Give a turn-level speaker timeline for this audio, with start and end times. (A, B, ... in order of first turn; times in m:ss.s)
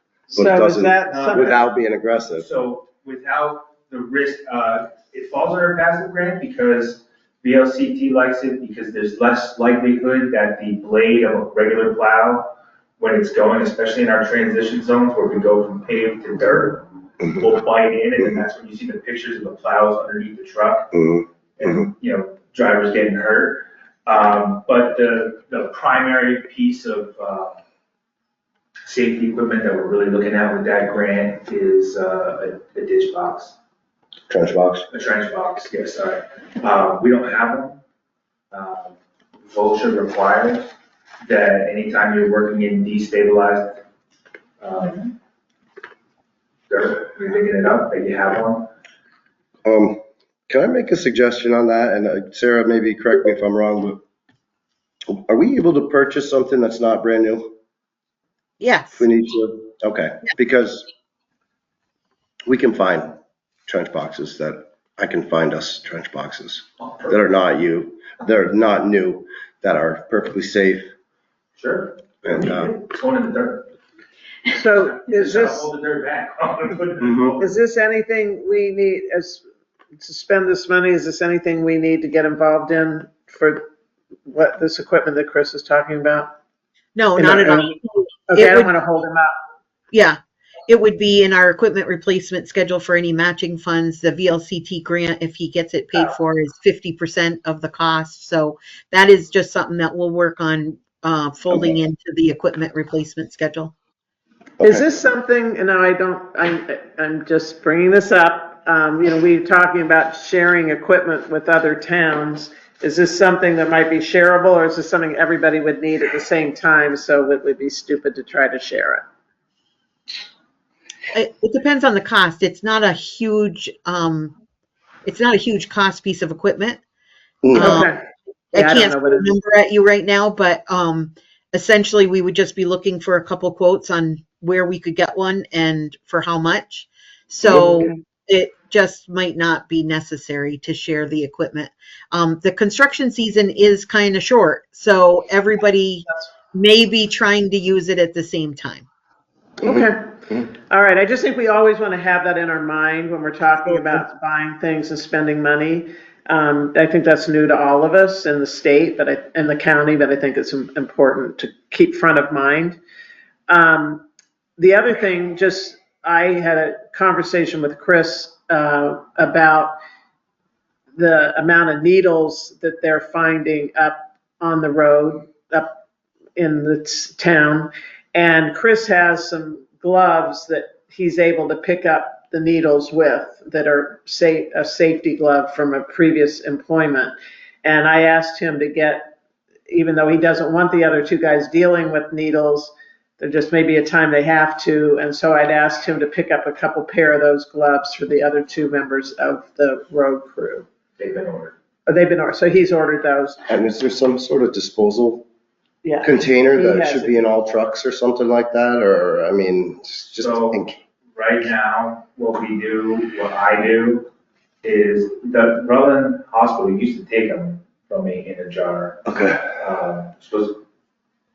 0:00.3-0:01.6 A
0:00.3-0:01.6 B
0:00.3-0:02.5 C
0:02.4-0:20.9 A
0:20.9-0:21.9 C
0:21.6-0:27.6 A
0:28.9-0:33.6 A
0:34.3-0:34.9 C
0:34.9-0:37.8 A
0:38.5-0:40.7 A
0:41.2-0:43.8 A
0:44.6-0:45.1 A
0:46.7-0:48.7 A
0:49.6-0:54.0 C
0:55.1-0:57.5 C
0:58.6-0:59.1 D
0:59.0-1:00.9 C
1:02.5-1:03.1 C
1:03.7-1:10.9 C
1:06.8-1:07.1 A
1:11.6-1:13.7 A
1:12.2-1:12.8 C
1:14.5-1:15.7 B
1:14.7-1:17.6 A
1:17.0-1:17.4 C
1:17.4-1:19.4 B
1:20.0-1:23.6 B
1:24.3-1:26.3 B
1:27.0-1:28.8 D
1:27.2-1:29.3 B
1:29.9-1:43.7 D
1:44.6-1:44.8 C
1:44.6-1:59.0 B
2:01.1-2:04.3 D
2:05.0-2:06.8 D
2:07.4-2:07.9 C
2:07.6-2:07.9 D
2:07.6-2:09.3 B
2:08.5-2:28.9 D
2:17.4-2:18.0 B
2:29.6-2:30.4 C
2:29.6-2:42.8 B
2:43.5-2:44.0 B
2:44.6-2:49.8 B
2:51.0-2:55.8 B
2:56.4-3:09.1 B
3:09.7-3:20.7 B
3:21.0-3:21.5 A
3:21.9-3:23.4 B
3:23.5-3:25.2 C
3:25.8-3:27.3 B
3:26.0-3:30.8 C
3:30.2-3:30.6 A
3:31.1-3:34.1 A
3:34.6-3:40.6 A
3:39.1-3:39.5 C